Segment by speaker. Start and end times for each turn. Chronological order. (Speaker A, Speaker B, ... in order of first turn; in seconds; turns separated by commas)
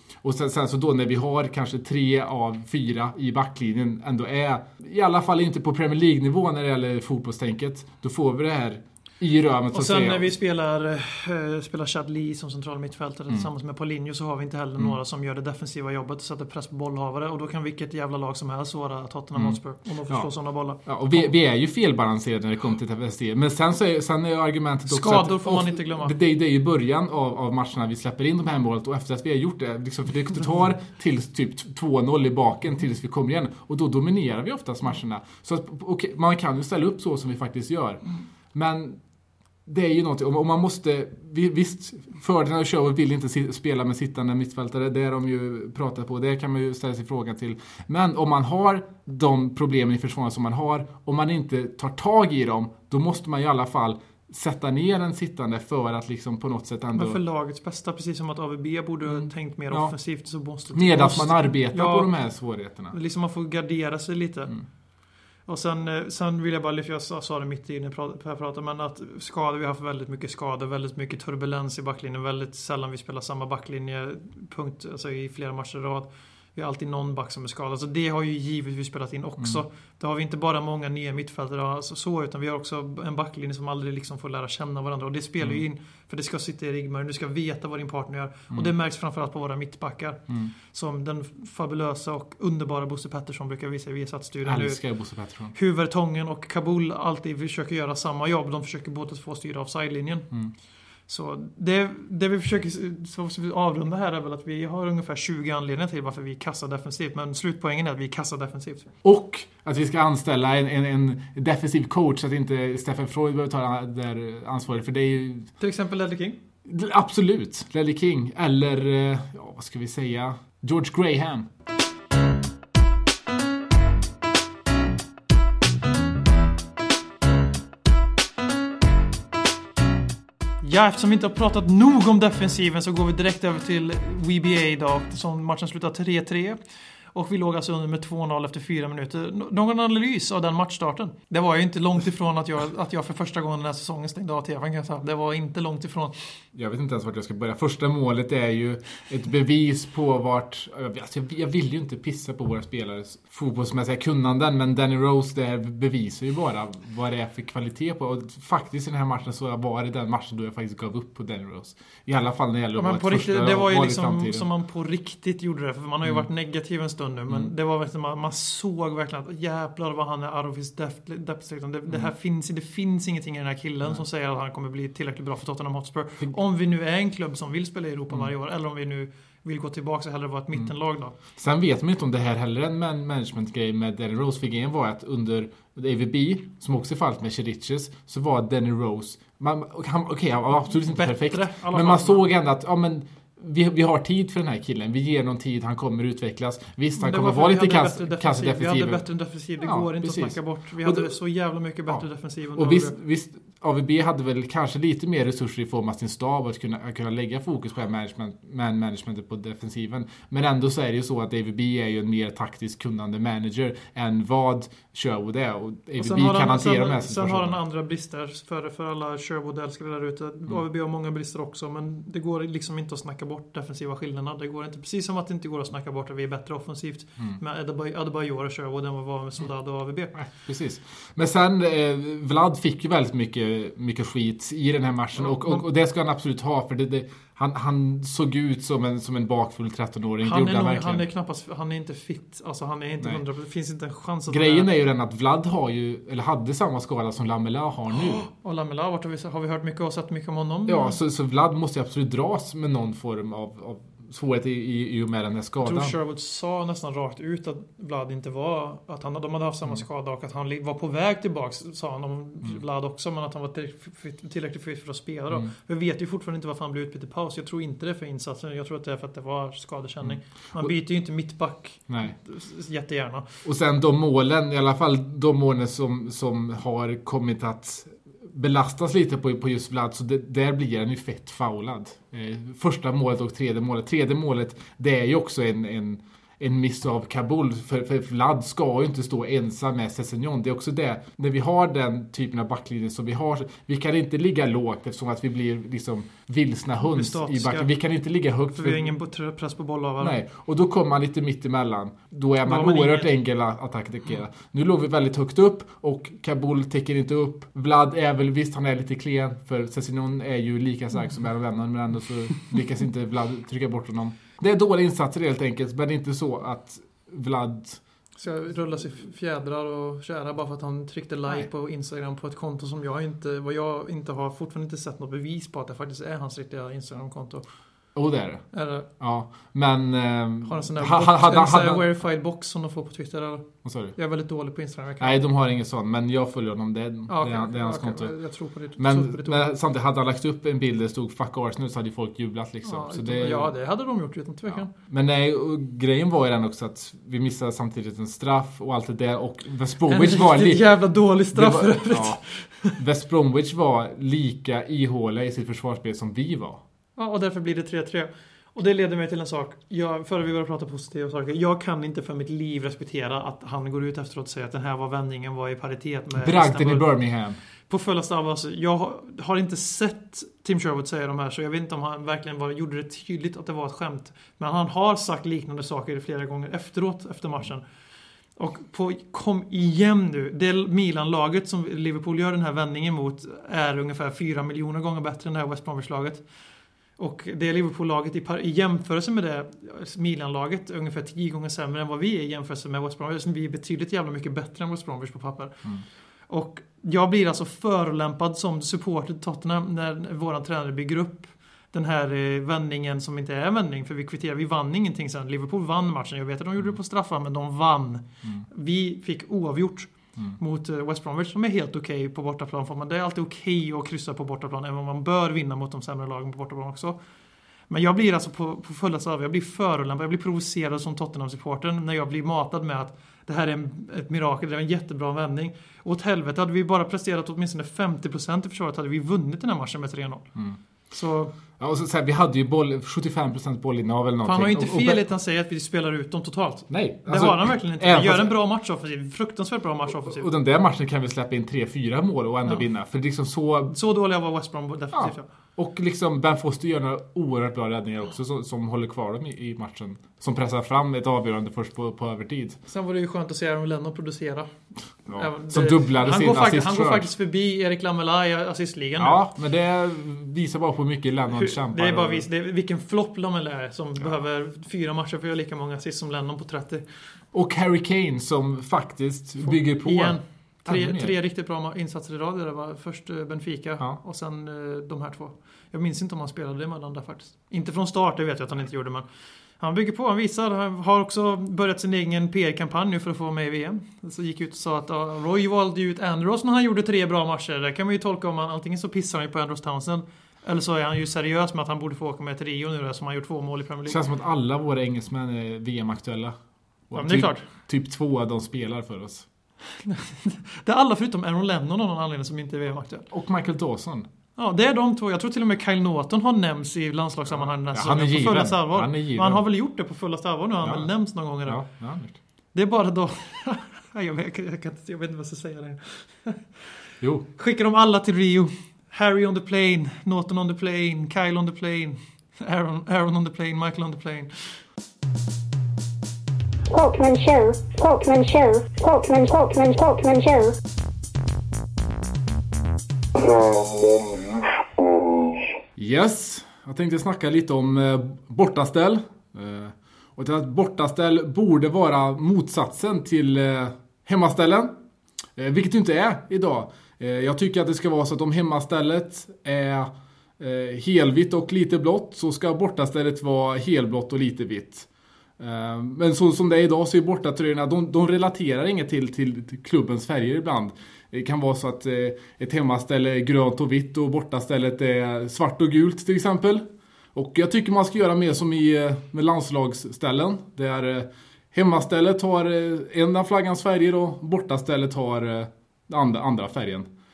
Speaker A: 0.2-10.3, Speaker B: 9.7-21.2, Speaker A: 19.3-20.3, Speaker A: 20.8-38.0, Speaker B: 24.9-26.2, Speaker A: 38.5-39.0, Speaker A: 39.6-57.2, Speaker B: 56.9-62.2, Speaker A: 59.0-59.9, Speaker A: 60.7-63.0, Speaker B: 62.9-64.5, Speaker B: 65.5-94.8, Speaker A: 94.4-95.5, Speaker B: 95.5-100.3, Speaker B: 101.1-108.9, Speaker A: 109.0-115.5, Speaker B: 115.6-116.4, Speaker A: 116.7-121.5, Speaker B: 130.6-136.6, Speaker B: 137.1-146.2, Speaker A: 146.5-164.5, Speaker B: 162.8-181.1, Speaker A: 181.3-199.0, Speaker B: 190.9-192.3, Speaker B: 197.0-202.9, Speaker A: 199.6-201.1, Speaker A: 202.6-217.6, Speaker B: 216.0-230.3, Speaker A: 230.1-241.1, Speaker B: 235.2-235.7, Speaker B: 240.2-244.7, Speaker A: 244.3-248.2, Speaker B: 247.9-251.0, Speaker A: 250.7-255.9, Speaker B: 255.6-273.3, Speaker A: 270.0-270.7, Speaker A: 271.9-272.1, Speaker A: 273.4-298.9, Speaker B: 296.8-297.7, Speaker B: 298.5-300.2, Speaker A: 300.0-317.8, Speaker B: 302.4-303.1, Speaker B: 318.2-327.4, Speaker A: 327.9-331.9, Speaker B: 328.5-328.9, Speaker B: 330.4-335.2, Speaker A: 333.6-333.9, Speaker A: 335.0-338.1, Speaker B: 337.1-339.4, Speaker A: 338.8-343.5, Speaker B: 342.6-344.7, Speaker A: 344.5-350.6, Speaker B: 349.9-352.7, Speaker A: 351.3-356.6, Speaker B: 356.9-366.9, Speaker A: 366.2-367.4, Speaker B: 367.7-377.6, Speaker B: 378.4-386.3, Speaker B: 387.0-395.7, Speaker B: 396.3-417.0, Speaker B: 417.7-430.3, Speaker B: 430.9-431.3, Speaker A: 431.6-435.1, Speaker B: 434.2-440.3, Speaker A: 436.7-438.3, Speaker A: 439.9-443.7, Speaker B: 443.7-445.2, Speaker A: 444.9-452.6, Speaker B: 452.7-454.5, Speaker B: 455.1-459.2, Speaker A: 455.1-457.1, Speaker A: 459.0-462.2, Speaker B: 461.3-466.8, Speaker A: 467.3-471.1, Speaker B: 469.4-479.1, Speaker B: 479.6-494.0, Speaker A: 493.9-496.3, Speaker A: 496.9-499.3, Speaker B: 496.9-497.4, Speaker B: 499.7-503.1, Speaker A: 503.1-504.1, Speaker B: 504.4-511.6, Speaker A: 507.7-509.4, Speaker A: 510.6-510.9, Speaker A: 511.4-512.2, Speaker B: 512.5-516.6, Speaker A: 517.0-517.3, Speaker B: 517.4-524.6, Speaker C: 526.7-530.5, Speaker A: 535.8-544.8, Speaker A: 545.4-554.9, Speaker A: 555.4-576.9